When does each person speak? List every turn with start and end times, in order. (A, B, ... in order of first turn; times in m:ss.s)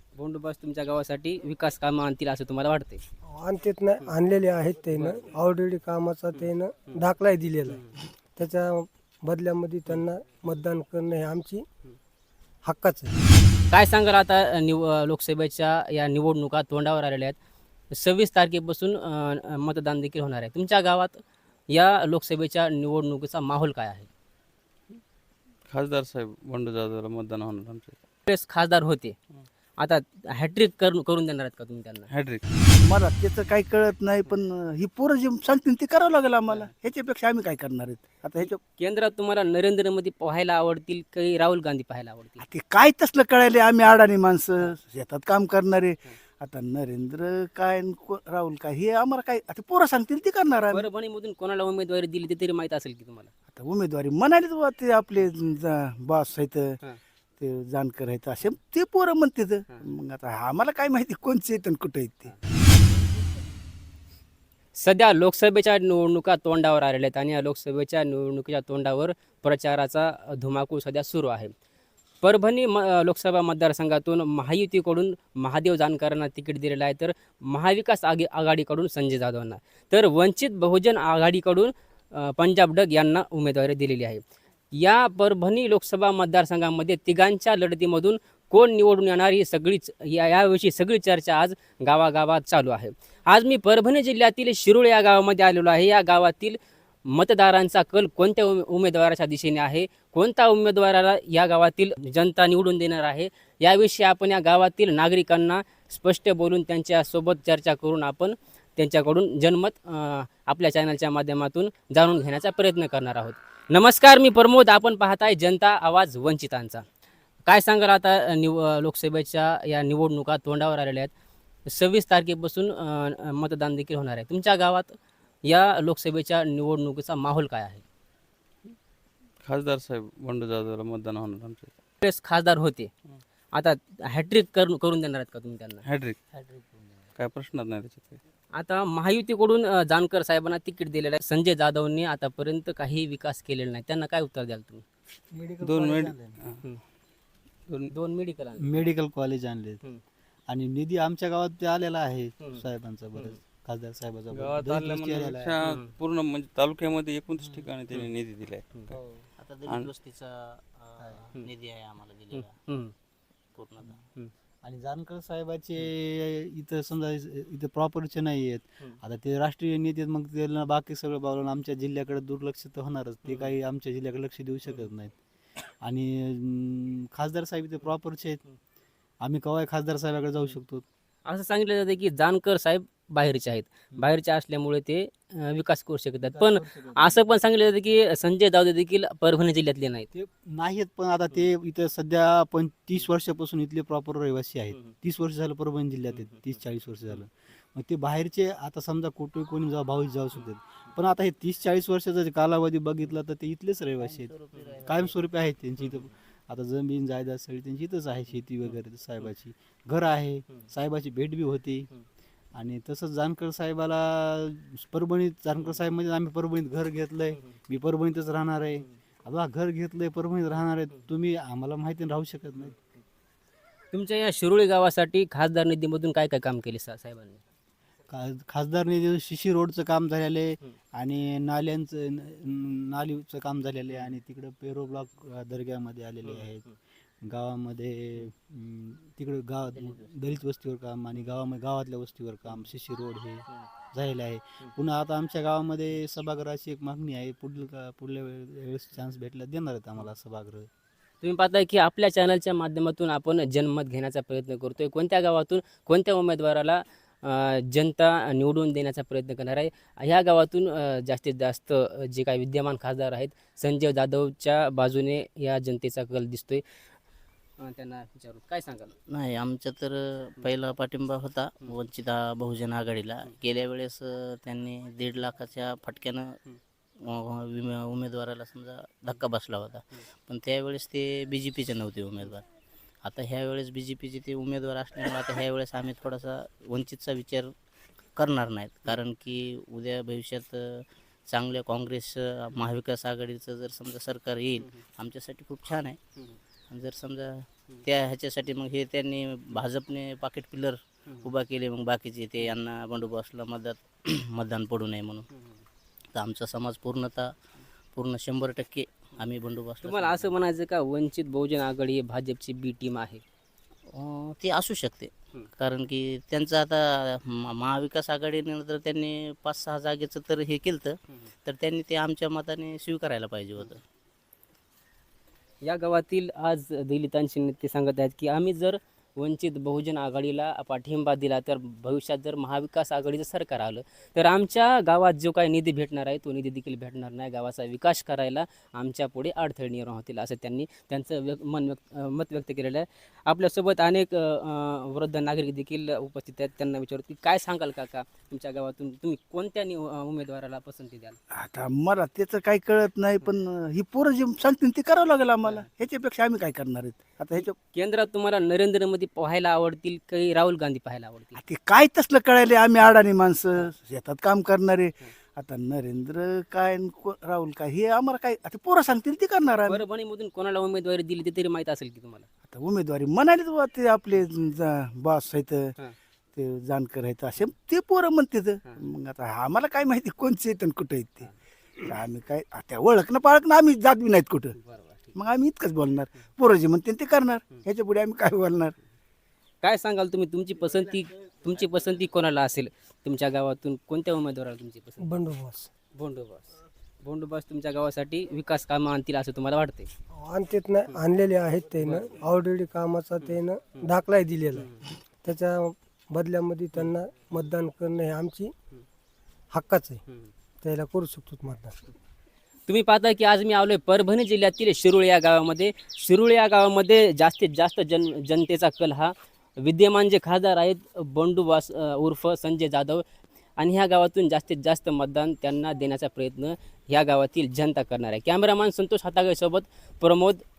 0:00.2-0:03.0 A
0:03.3-0:11.6 B
0:05.0-0:05.2 A
0:06.4-0:07.0 A
0:07.7-0:08.0 A
0:12.6-0:13.1 B
0:13.7-0:17.4 A
0:17.9-0:24.1 A
0:25.7-0:28.0 C
0:28.3-0:29.2 A
0:29.8-0:32.1 A
0:32.1-0:32.4 C
0:32.8-0:38.6 D
0:38.4-0:42.4 A
0:42.4-0:50.8 D
0:50.7-0:53.3 A
0:53.5-0:56.8 D
0:57.4-1:02.3 D
1:04.8-1:11.5 A
1:12.2-1:24.2 A
1:24.7-1:56.8 A
1:57.5-2:01.1 A
2:01.7-2:07.8 A
2:09.4-2:11.7 C
2:12.0-2:12.9 A
2:13.5-2:15.8 A
2:15.9-2:16.2 C
2:16.3-2:17.1 E
2:17.2-2:18.2 C
2:18.6-2:24.8 A
2:25.3-2:26.4 E
2:25.6-2:26.6 C
2:27.9-2:28.8 A
2:28.6-2:29.8 E
2:30.5-2:35.6 E
2:34.3-2:38.8 C
2:35.6-2:35.9 A
2:39.4-2:42.6 F
2:41.0-2:41.4 E
2:42.3-2:42.9 A
2:43.5-2:44.0 F
2:44.6-2:55.1 E
2:53.3-2:53.5 A
2:55.8-2:58.4 E
2:59.2-3:00.8 E
3:01.3-3:10.1 A
3:06.2-3:07.4 E
3:10.1-3:31.9 E
3:24.0-3:25.2 F
3:32.6-3:42.8 E
3:43.9-3:47.4 A
3:48.1-3:56.7 E
3:57.2-4:10.7 E
4:11.2-4:26.6 A
4:27.6-4:29.0 A
4:29.1-4:36.4 F
4:37.0-4:42.4 F
4:43.0-4:47.5 F
4:48.2-4:56.0 F
4:56.7-5:05.3 F
5:05.3-5:05.6 A
5:06.1-5:07.3 F
5:08.0-5:10.4 F
5:09.8-5:13.2 A
5:13.9-5:23.8 F
5:25.6-5:51.2 A
5:51.3-5:57.6 D
5:57.7-6:01.4 A
6:01.4-6:09.8 D
6:09.7-6:12.3 A
6:12.5-6:15.7 D
6:16.4-6:21.3 D
6:21.8-6:24.6 D
6:24.6-6:25.2 A
6:25.2-6:28.8 D
6:29.6-6:35.1 A
6:35.0-6:35.7 B
6:36.0-6:39.9 A
6:40.2-6:44.7 B
6:41.8-6:42.2 A
6:44.6-6:44.9 A
6:45.2-6:48.5 B
6:49.5-6:50.0 B
6:50.6-6:51.8 B
6:52.7-7:03.0 A
7:03.6-7:10.4 A